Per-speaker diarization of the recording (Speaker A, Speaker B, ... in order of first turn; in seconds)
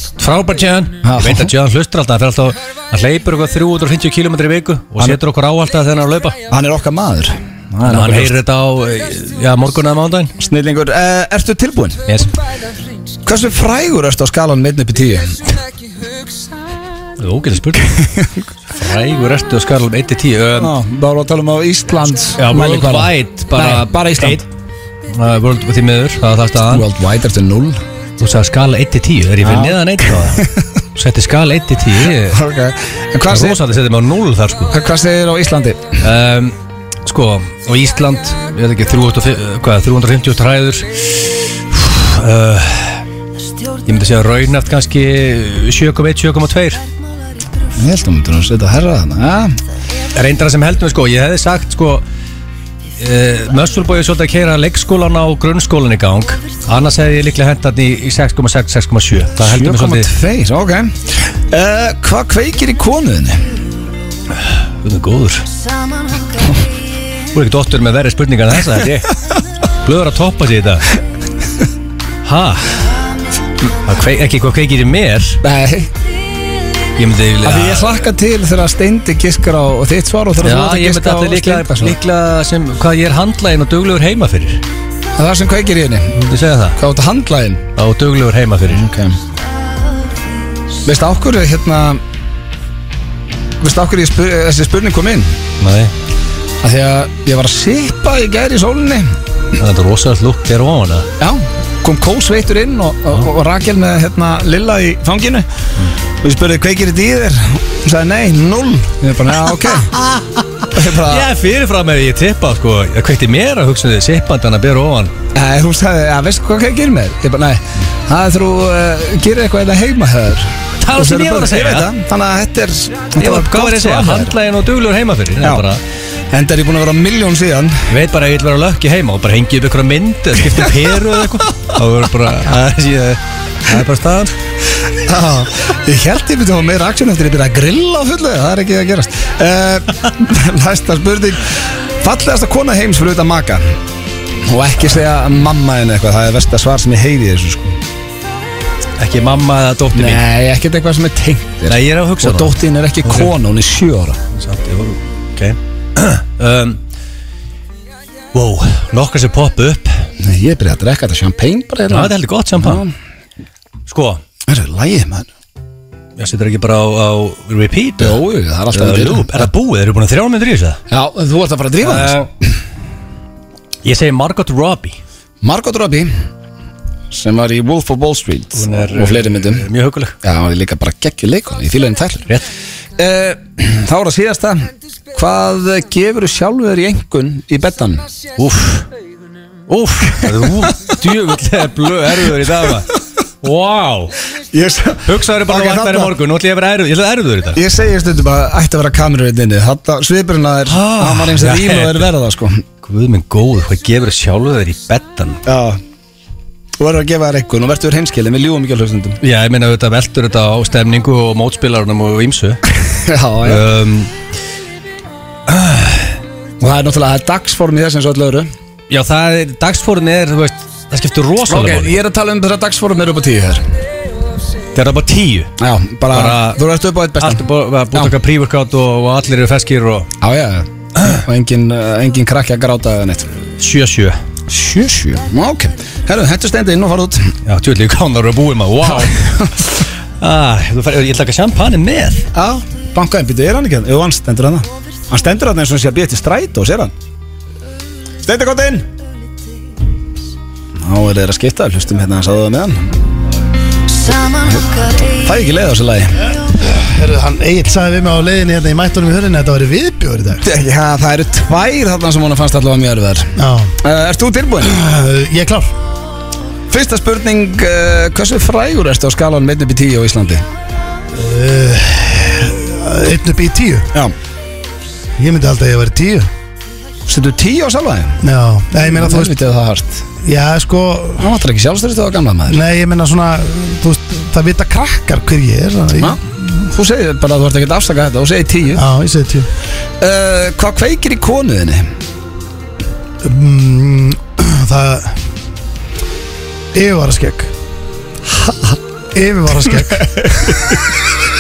Speaker A: 0.2-6.4, 7.8-10.3, 17.2-18.0, 18.7-20.7, 22.4-24.4, 25.1-26.9, 28.2-32.4, 33.3-34.7, 36.0-43.0, 43.9-46.8, 50.1-52.0, 53.0-60.1, 64.4-65.5, 67.3-69.2, 69.8-70.9, 72.2-72.8, 73.8-75.4, 77.0-78.0, 80.4-84.6, 86.2-86.8, 87.8-88.8, 95.6-95.9, 99.6-101.1, 109.5-115.1, 120.8-121.9, 123.2-125.8, 127.9-134.3, 149.0-150.2, 151.7-153.3, 154.3-156.8, 158.3-159.9, 161.9-162.8, 163.9-164.2, 166.2-170.8, 171.8-172.3, 173.8-175.0, 178.6-180.2, 188.4-188.9, 189.7-194.2, 195.1-197.6, 200.7-202.1, 202.8-205.4, 209.2-212.6, 213.4-214.1, 215.5-216.2, 218.9-222.0, 224.7-225.5, 226.1-226.6, 227.2-230.1, 233.6-234.2, 237.5-239.2, 240.2-242.3
Speaker B: 1.0-1.5, 6.5-8.3, 10.4-12.0, 13.2-15.5, 18.0-18.3, 20.6-24.4, 26.7-27.8, 29.4-30.6, 32.2-33.6, 34.7-36.0, 47.8-49.6, 59.4-63.5, 75.4-75.9, 77.4-82.0, 85.2-86.2, 86.8-87.7, 88.7-89.2, 90.8-92.0, 93.6-95.3, 96.6-99.1, 101.2-105.5, 106.2-109.9, 110.7-111.3, 115.3-124.3, 126.3-127.9, 134.9-143.8, 144.4-147.8, 149.9-154.2, 160.2-162.9, 164.5-165.3, 168.0-169.5, 170.9-172.2, 175.4-176.1, 177.1-179.7, 180.2-182.3, 183.0-188.1, 194.5-196.1, 197.6-202.6, 205.5-205.8, 206.8-209.2, 212.9-213.6, 216.6-218.5, 221.5-223.7, 225.6-228.1, 230.2-233.3, 234.5-237.3, 238.9-239.8, 242.3-246.9, 248.2-248.9, 250.8-252.9, 254.1-256.3, 260.4-264.8, 266.7-270.4, 277.1-278.2, 278.8-280.1, 281.2-282.6, 286.0-288.9, 290.0-291.9, 298.4-298.8, 299.9-300.7
Speaker C: 256.4-260.4, 263.4-263.8, 264.6-265.8, 271.1-273.9, 275.2-276.3, 278.2-279.4, 280.2-281.3, 282.5-286.4, 288.7-289.5, 293.2-295.2, 296.7-297.5, 299.1-300.5